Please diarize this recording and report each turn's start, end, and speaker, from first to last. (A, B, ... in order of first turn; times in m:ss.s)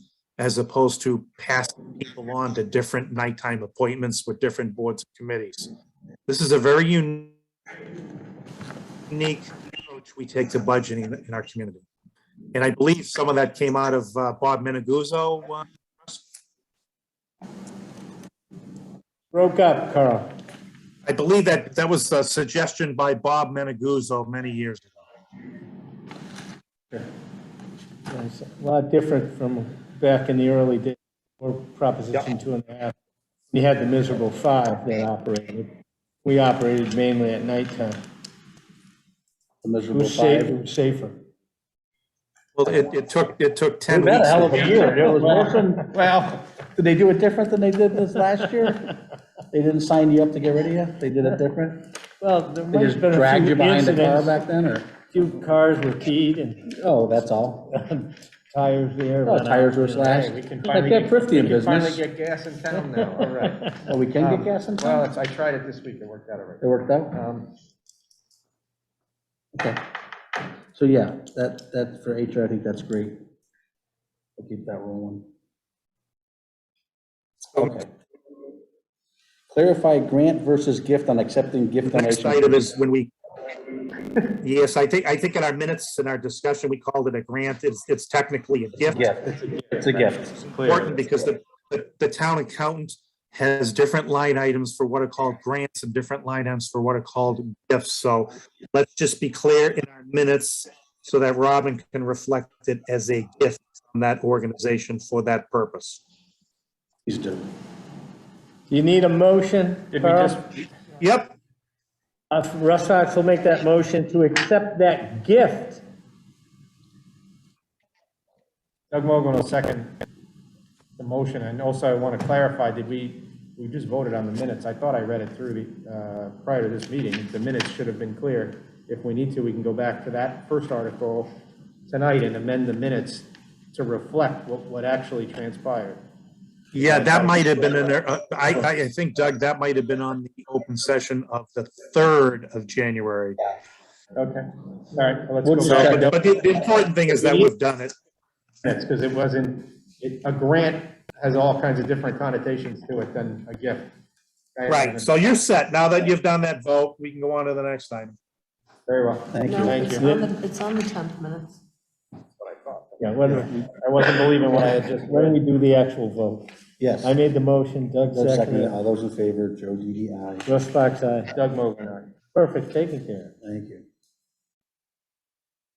0:00.4-0:05.7 A
0:06.3-0:07.4 A
0:09.1-0:11.8 A
0:12.5-0:16.2 A
0:19.3-0:20.3 B
0:21.0-0:25.0 A
0:28.1-0:32.9 B
0:33.5-0:35.7 B
0:36.2-0:38.0 B
0:39.6-0:40.6 C
0:39.9-0:41.2 B
0:42.5-0:45.0 A
0:43.9-0:45.9 C
0:44.7-0:46.4 D
0:46.7-0:49.0 C
0:49.5-0:51.9 C
0:52.2-0:54.4 B
0:52.7-0:54.9 C
0:55.1-0:56.7 B
0:56.6-0:57.7 C
0:57.7-1:00.0 B
0:59.2-1:02.0 C
0:59.9-1:07.5 D
1:02.8-1:03.3 B
1:03.9-1:05.0 C
1:06.6-1:07.2 C
1:09.5-1:09.9 C
1:10.7-1:13.2 C
1:14.4-1:15.2 C
1:17.5-1:17.8 A
1:17.6-1:17.9 C
1:19.5-1:22.7 C
1:21.8-1:23.1 A
1:24.4-1:29.1 A
1:28.9-1:30.3 C
1:29.2-1:31.0 D
1:30.6-1:46.0 A
1:47.0-1:47.5 C
1:48.7-1:50.4 B
1:49.9-1:50.6 D
1:51.0-1:51.3 A
1:52.3-1:55.8 B
1:58.9-1:59.9 D
2:01.0-2:11.3 D
2:11.9-2:16.0 D
2:16.7-2:23.4 A
2:16.7-2:17.9 D
2:24.1-2:26.3 D
2:25.4-2:26.1 C
2:25.6-2:27.9 A
2:27.1-2:27.5 D
2:28.6-2:33.9 D
2:34.6-2:35.1 D
2:34.7-2:38.2 A
2:38.9-2:40.0 D
2:39.3-2:39.9 C
2:39.4-2:41.6 E
2:39.8-2:40.3 B
2:42.4-2:45.4 D
2:43.0-2:43.7 B
2:45.0-2:46.5 B
2:46.8-2:47.2 C
2:47.0-2:48.7 B
2:48.1-2:50.5 C
2:50.4-2:51.4 B
2:51.3-2:52.1 D
2:52.3-2:53.3 B
2:53.4-2:53.8 C